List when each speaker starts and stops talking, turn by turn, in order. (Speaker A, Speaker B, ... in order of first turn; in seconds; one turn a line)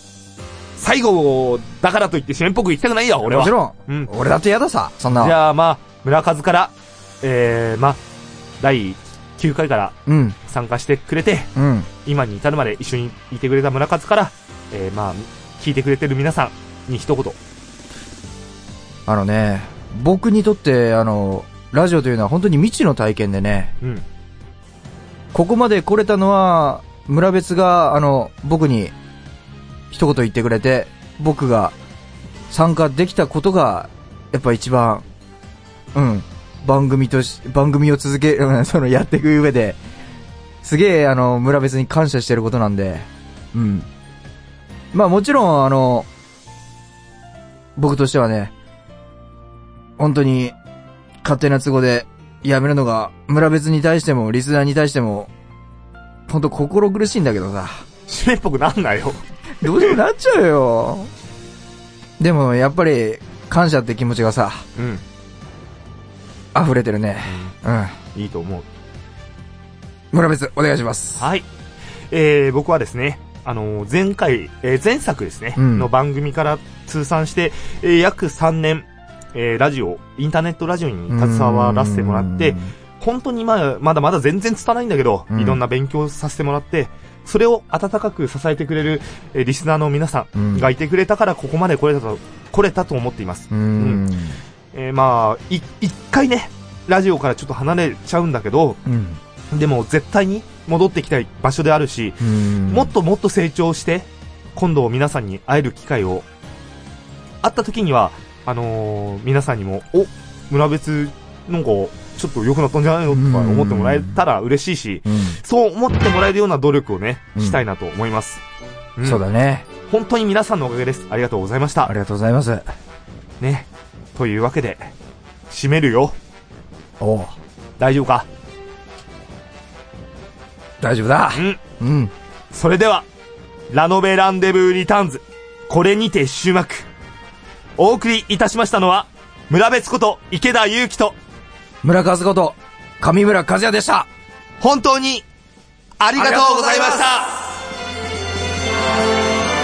Speaker A: 0.8-4.1
Speaker B: 3.2-5.3
Speaker A: 5.1-8.0
Speaker A: 8.6-11.5
Speaker B: 10.1-10.4
Speaker B: 11.6-11.9
Speaker A: 12.0-17.4
Speaker B: 19.1-23.7
Speaker B: 25.3-28.9
Speaker B: 29.9-31.7
Speaker B: 32.5-35.0
Speaker B: 35.9-39.8
Speaker B: 40.6-43.9
Speaker B: 44.9-46.1
Speaker B: 47.8-48.5
Speaker B: 50.0-50.5
Speaker B: 51.2-55.3
Speaker B: 56.3-57.8
Speaker A: 58.1-60.0
Speaker B: 59.6-61.1
Speaker B: 62.2-64.6
Speaker A: 64.8-65.0
Speaker B: 66.5-67.9
Speaker A: 67.3-67.5
Speaker A: 68.1-68.7
Speaker B: 70.1-71.3
Speaker A: 71.2-71.5
Speaker A: 72.1-94.1
Speaker B: 75.5-75.9
Speaker B: 81.1-82.7
Speaker B: 85.3-85.6
Speaker B: 90.3-90.7
Speaker B: 93.5-94.4
Speaker A: 94.7-98.8
Speaker B: 98.8-99.2
Speaker A: 99.5-106.2
Speaker B: 102.2-102.9
Speaker A: 107.4-118.4
Speaker B: 113.1-114.2
Speaker B: 115.0-115.4
Speaker A: 119.0-119.2
Speaker B: 119.0-119.7
Speaker A: 119.9-121.9
Speaker B: 121.8-122.7
Speaker A: 123.4-124.9
Speaker A: 125.5-126.2
Speaker B: 127.0-127.3
Speaker A: 127.8-128.3
Speaker B: 130.8-132.1
Speaker A: 131.3-131.6
Speaker A: 132.5-133.1
Speaker A: 133.7-136.9
Speaker A: 137.8-141.2
Speaker B: 141.8-144.1
Speaker A: 144.6-145.2
Speaker A: 146.0-147.5